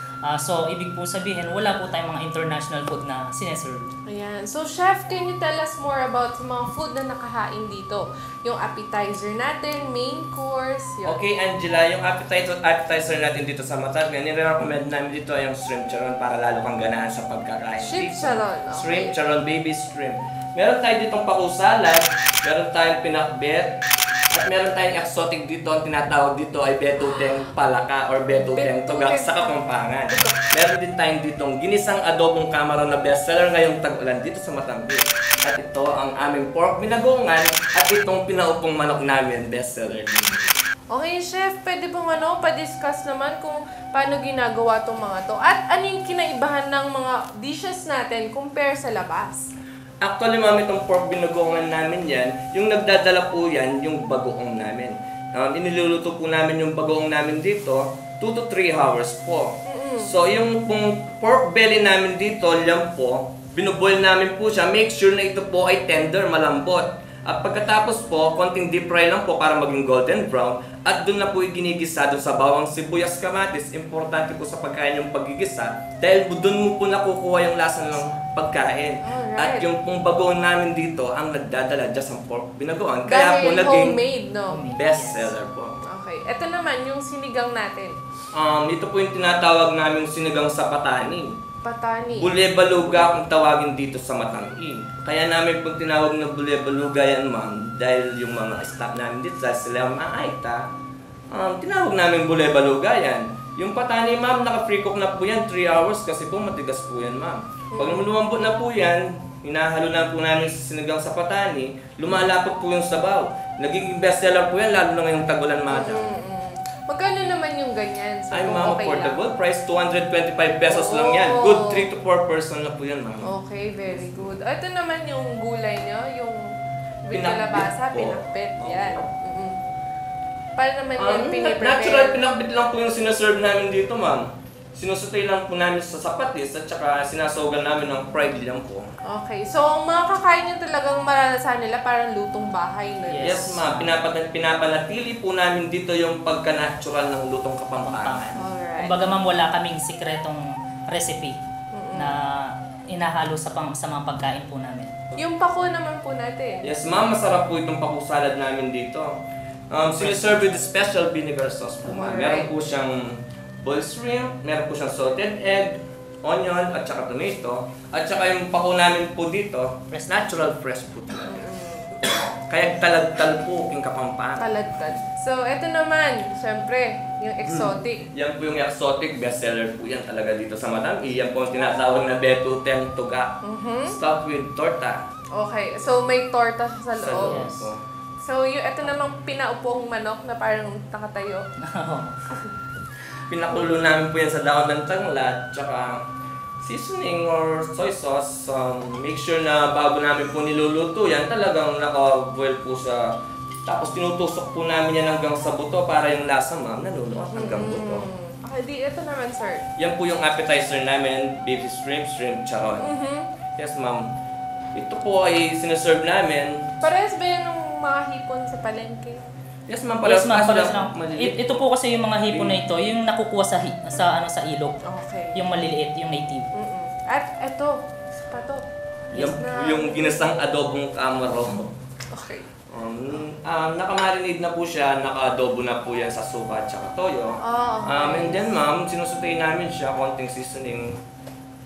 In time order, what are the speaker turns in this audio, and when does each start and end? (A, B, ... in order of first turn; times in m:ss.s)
0:00.3-0:03.9 A
0:04.1-0:11.2 B
0:11.0-0:23.8 C
0:17.8-0:19.2 B
0:24.3-0:40.4 C
0:28.3-0:30.4 B
0:40.9-0:49.4 B
0:50.0-1:24.0 C
0:59.7-1:00.1 B
1:19.0-1:19.7 B
1:23.0-1:24.6 B
1:24.5-1:25.3 A
1:24.8-1:25.8 C
1:25.9-1:28.0 B
1:28.3-1:31.4 C
1:31.6-1:32.3 B
1:32.2-1:40.7 C
1:41.3-1:56.1 C
1:47.7-1:48.0 B
1:55.7-1:59.2 B
1:58.3-2:03.3 C
2:00.7-2:01.9 B
2:03.2-2:09.6 B
2:03.9-2:04.2 C
2:07.1-2:09.1 C
2:10.6-2:12.2 B
2:11.0-2:18.9 C
2:19.1-2:23.6 B
2:23.1-2:24.0 A
2:23.2-2:28.4 C
2:27.8-2:31.4 A
2:28.4-2:29.0 B
2:31.7-2:32.1 B
2:32.0-2:34.9 A
2:35.2-2:36.7 B
2:36.6-2:39.2 C
2:39.7-2:54.5 C
2:40.0-2:40.6 A
2:41.9-2:42.5 B
2:49.9-2:50.2 A
2:51.2-2:52.0 B
2:54.4-2:58.1 B
2:57.4-3:05.1 C
3:03.4-3:04.0 B
3:05.3-3:07.5 B
3:07.0-3:07.8 C
3:07.3-3:07.7 A
3:08.2-3:11.5 B
3:11.7-3:12.2 A
3:13.3-3:16.0 C
3:16.6-3:23.1 C
3:23.6-3:28.1 C
3:27.2-3:29.7 B
3:29.8-3:32.9 C
3:32.8-3:33.3 B
3:33.6-3:34.1 C
3:34.8-3:36.8 C
3:36.8-3:39.2 B
3:39.7-3:41.6 C
3:40.0-3:44.8 A
3:42.3-3:42.6 C
3:44.9-3:45.4 B
3:45.3-3:46.5 A
3:46.6-3:50.3 B
3:49.1-3:51.7 C
3:52.1-3:52.5 B
3:52.7-4:01.0 C
3:57.4-3:58.5 B